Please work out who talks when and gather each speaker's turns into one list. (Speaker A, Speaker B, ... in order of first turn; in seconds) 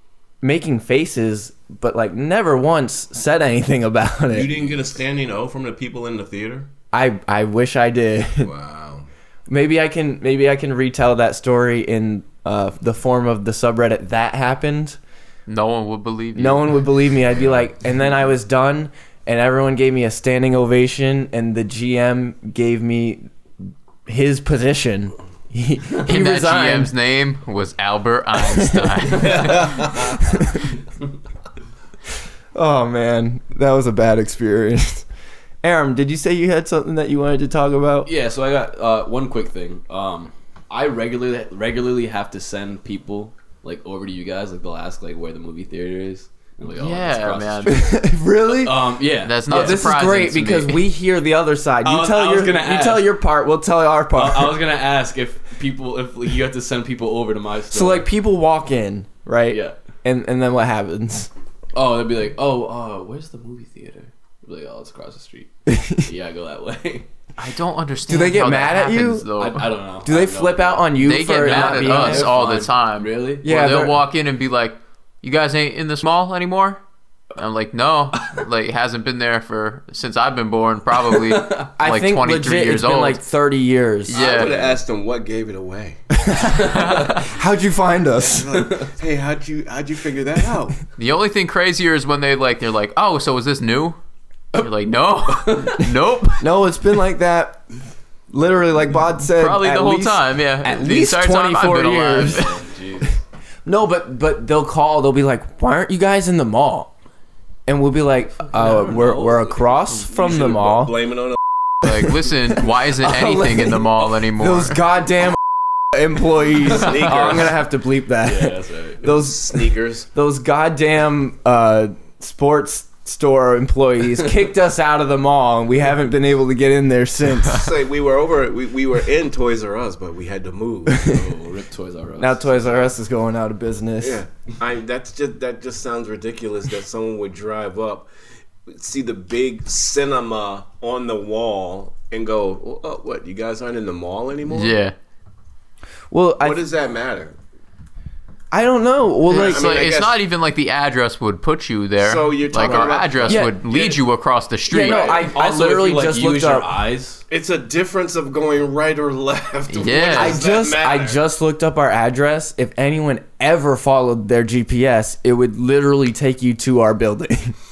Speaker A: 0.4-4.5, 6.9-8.5, 9.5-15.0, 16.4-23.3, 24.1-26.9, 28.4-29.4, 30.2-30.7, 32.5-35.0, 35.6-38.1, 47.7-49.0, 49.5-54.6, 57.7-61.3, 65.7-66.1, 68.1-69.2, 70.0-72.3, 73.4-74.0, 81.8-84.2, 86.1-88.7, 96.4-97.6, 98.3-102.4, 103.7-106.9, 107.7-111.0, 112.5-127.7, 130.9-131.2, 132.2-134.2, 146.1-146.6, 148.5-149.8, 153.2-153.6, 154.7-156.7, 160.1-167.5
Speaker B: 4.3-6.7, 8.4-9.1, 29.2-30.1, 84.1-86.0, 88.2-90.8, 110.1-111.4, 116.6-117.5, 119.0-120.1, 127.4-131.1, 134.0-138.1, 138.7-144.8, 146.4-147.3, 149.3-150.2, 152.0-154.0, 154.8-155.3, 157.3-161.2
Speaker C: 15.5-16.9, 26.0-30.1, 46.8-47.8, 49.2-50.9, 67.4-69.7, 71.0-76.8, 77.3-83.2, 84.1-84.7, 86.7-87.2, 91.0-94.0, 94.5-96.4, 99.3-102.5, 111.8-114.8, 144.5-144.9, 149.3-155.2, 159.7-160.4
Speaker D: 38.0-47.9, 48.5-49.9, 51.8-53.1, 54.1-58.1, 59.5-59.7, 61.7-67.1, 69.4-73.4, 81.1-81.7, 86.5-87.2, 88.5-88.9, 95.3-95.9, 102.2-103.2, 108.6-109.4, 118.2-119.0, 131.0-132.8, 155.2-157.2